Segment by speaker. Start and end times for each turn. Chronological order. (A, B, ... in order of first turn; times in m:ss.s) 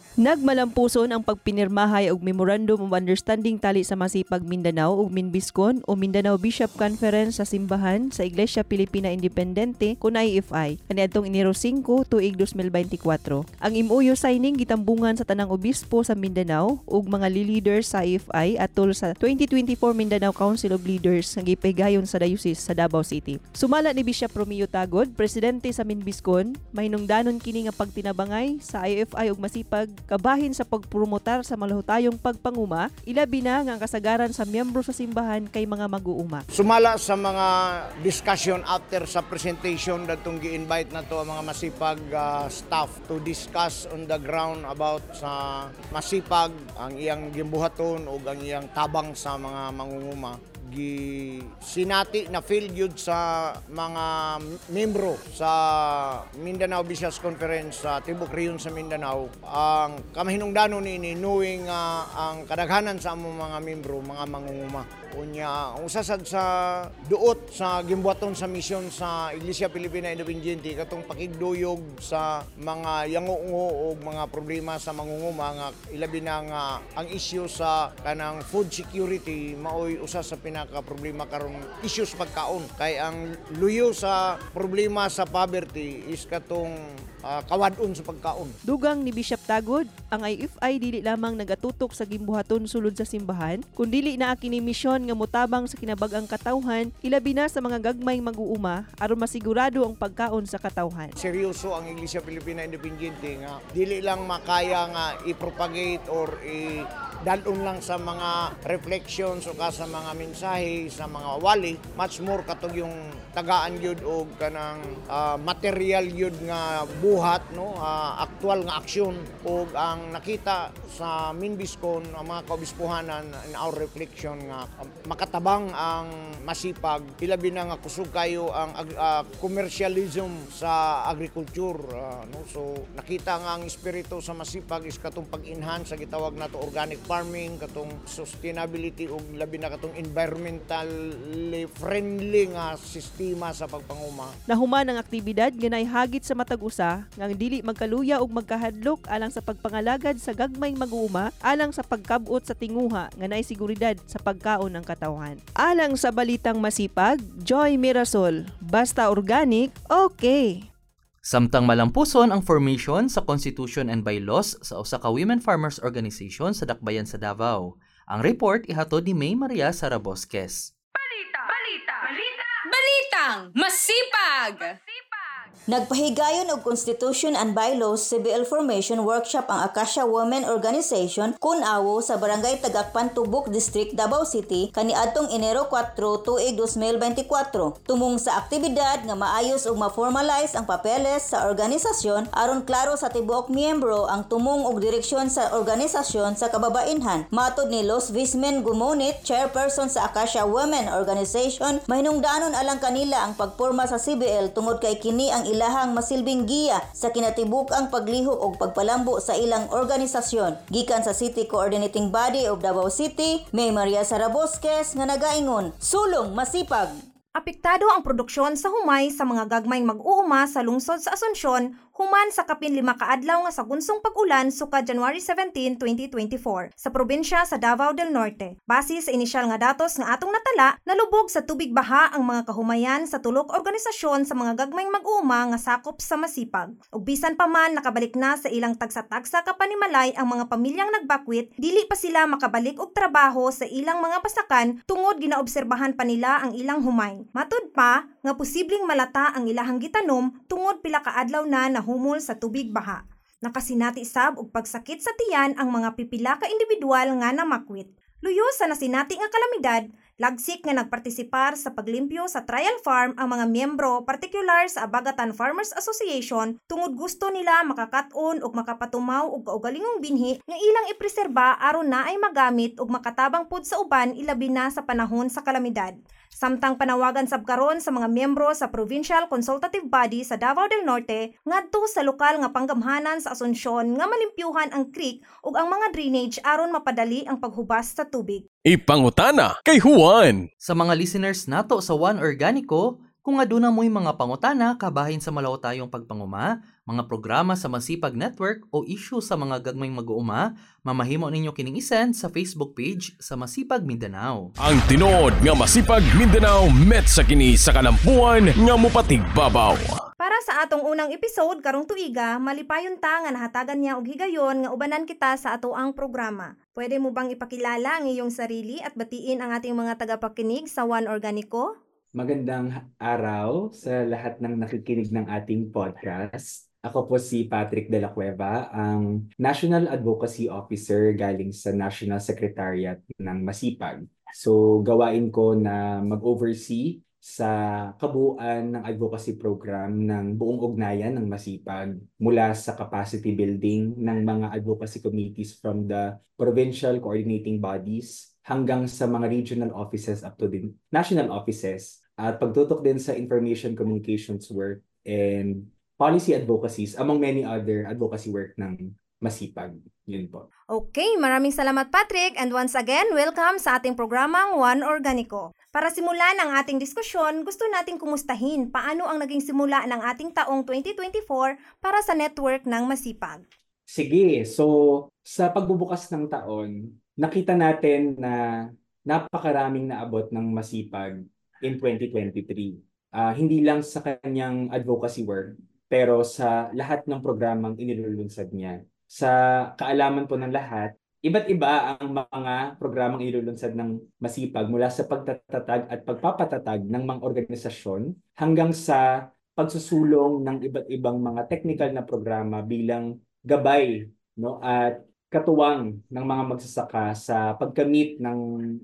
0:00.2-0:36.4 A
0:36.5-1:28.6 B
1:28.7-1:41.1 A
1:41.2-2:24.3 B
2:24.5-2:40.6 A
2:41.2-2:50.7 C
2:51.0-2:55.5 D
2:55.7-3:37.0 E
3:37.4-4:48.4 F
4:48.7-4:50.4 G
4:50.6-5:04.5 C
5:04.6-5:10.0 G
5:10.2-5:21.7 F
5:22.2-6:00.4 H
6:00.7-6:13.4 F
6:13.9-6:14.7 H
6:15.3-6:18.4 H
6:19.1-6:39.0 H
6:39.6-6:48.4 H